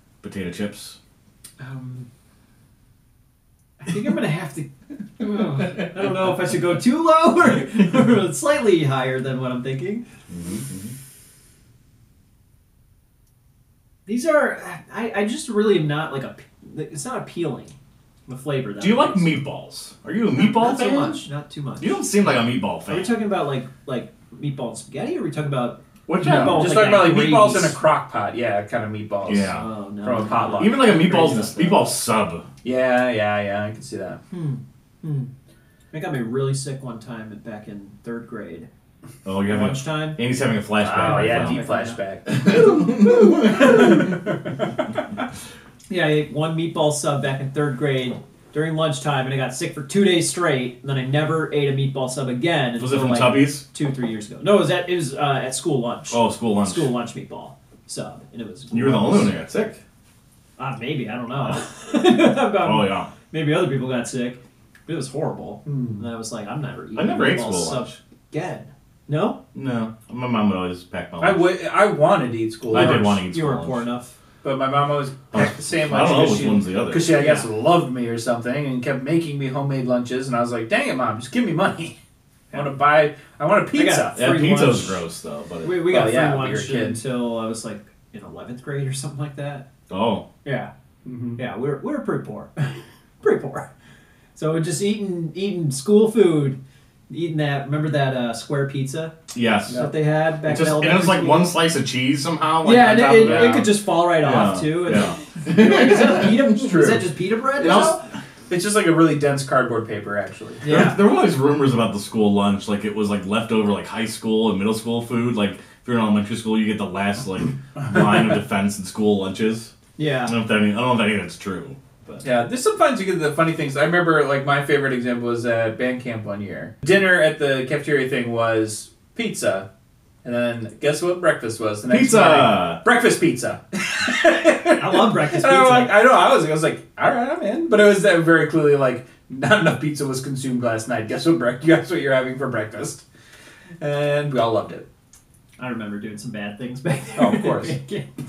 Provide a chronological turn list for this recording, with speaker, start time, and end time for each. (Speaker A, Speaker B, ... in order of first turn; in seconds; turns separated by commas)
Speaker A: 0.2-1.0, Speaker B: 1.6-2.0, Speaker C: 1.6-2.0, Speaker B: 3.8-4.7, Speaker B: 5.2-10.0, Speaker A: 10.3-10.9, Speaker B: 14.1-17.7, Speaker B: 18.3-19.4, Speaker A: 18.8-21.2, Speaker B: 20.3-22.0, Speaker A: 21.8-23.2, Speaker B: 22.9-27.8, Speaker A: 26.1-26.9, Speaker C: 26.2-30.8, Speaker A: 29.2-29.6, Speaker B: 29.5-31.9, Speaker A: 30.4-32.5, Speaker C: 32.6-34.2, Speaker B: 34.3-35.3, Speaker B: 35.9-38.7, Speaker A: 39.2-41.6, Speaker B: 39.5-40.2, Speaker C: 40.8-44.2, Speaker B: 41.0-42.0, Speaker A: 42.3-44.0, Speaker B: 45.9-59.4, Speaker A: 52.8-53.6, Speaker A: 56.1-57.0, Speaker A: 58.7-59.8, Speaker B: 60.6-69.4, Speaker A: 62.6-63.1, Speaker C: 65.7-66.0, Speaker A: 66.9-68.0, Speaker A: 69.5-71.5, Speaker C: 71.2-73.2, Speaker A: 72.7-73.8, Speaker B: 72.7-74.1, Speaker C: 74.4-82.0, Speaker A: 75.3-77.4, Speaker B: 77.2-77.4, Speaker C: 82.5-84.2, Speaker B: 83.7-85.0, Speaker A: 84.1-85.9, Speaker B: 85.6-89.7, Speaker C: 85.8-87.0, Speaker A: 89.9-90.2, Speaker B: 90.4-90.7, Speaker C: 91.0-91.4, Speaker B: 91.4-93.7, Speaker B: 94.3-96.6, Speaker B: 97.1-99.1, Speaker A: 99.3-99.8, Speaker B: 99.7-101.5, Speaker C: 99.7-99.9, Speaker A: 100.4-106.9, Speaker B: 102.6-108.0, Speaker C: 103.2-103.7, Speaker C: 105.8-107.0, Speaker A: 107.5-108.0, Speaker C: 108.5-110.7, Speaker B: 110.6-111.0, Speaker A: 110.6-119.7, Speaker C: 118.0-118.3, Speaker B: 120.0-120.3, Speaker A: 120.2-122.2, Speaker C: 122.2-129.7, Speaker C: 130.2-143.0, Speaker A: 131.9-132.8, Speaker B: 134.8-136.0, Speaker C: 143.8-144.8, Speaker B: 145.6-148.1, Speaker C: 147.2-147.8